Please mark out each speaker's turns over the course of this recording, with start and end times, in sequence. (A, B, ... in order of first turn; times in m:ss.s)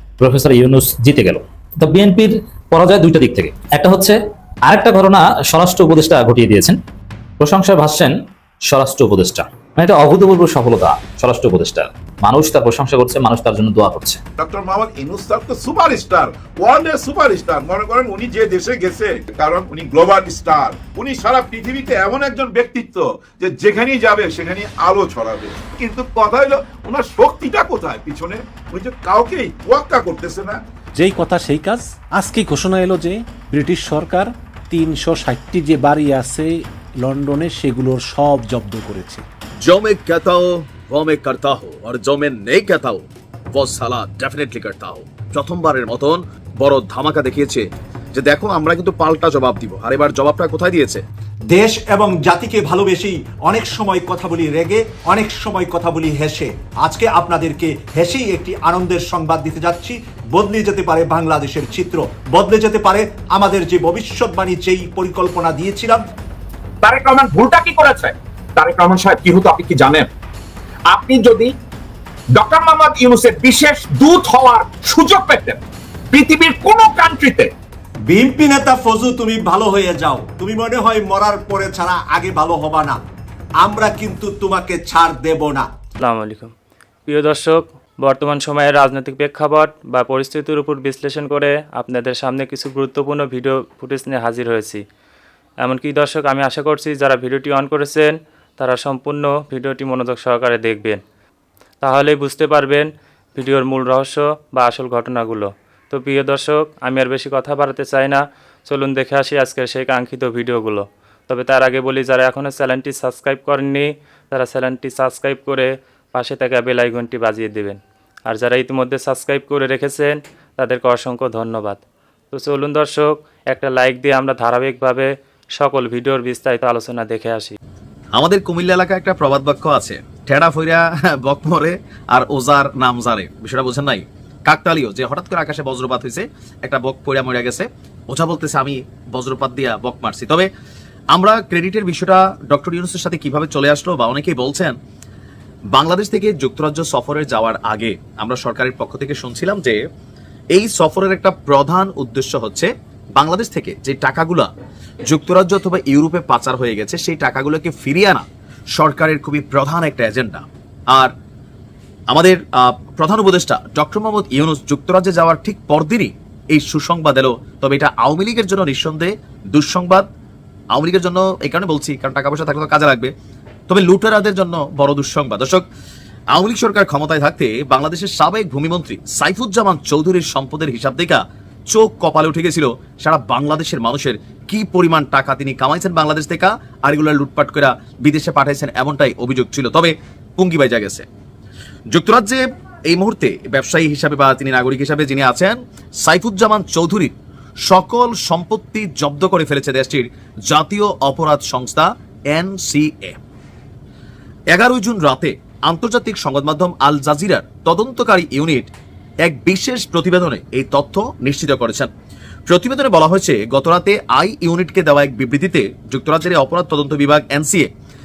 0:00.2-0:06.8 A
0:07.4-0:08.2 A
0:08.7-0:14.2 A
0:14.4-0:30.6 B
0:31.0-0:39.2 C
0:39.6-0:51.0 D
0:51.5-1:06.0 E
1:06.8-1:10.1 F
1:10.9-1:11.6 F
1:12.3-1:17.5 F
1:18.1-1:23.0 E
1:23.6-1:25.7 E
1:26.0-1:26.5 G
1:27.1-1:34.8 G
1:35.6-1:41.0 G
1:41.8-2:01.8 G
2:02.3-2:07.6 G
2:08.2-2:20.5 D
2:21.1-2:24.8 D
2:25.7-2:29.8 D
2:30.5-2:34.5 D
2:35.1-2:38.2 D
2:38.8-2:41.1 D
2:42.1-2:50.1 D
2:50.7-2:53.1 D
2:53.7-2:55.7 D
2:56.3-3:11.1 D
3:11.9-3:17.1 D
3:17.7-3:23.2 D
3:24.5-3:28.7 D
3:29.2-3:31.9 D
3:32.5-3:37.7 D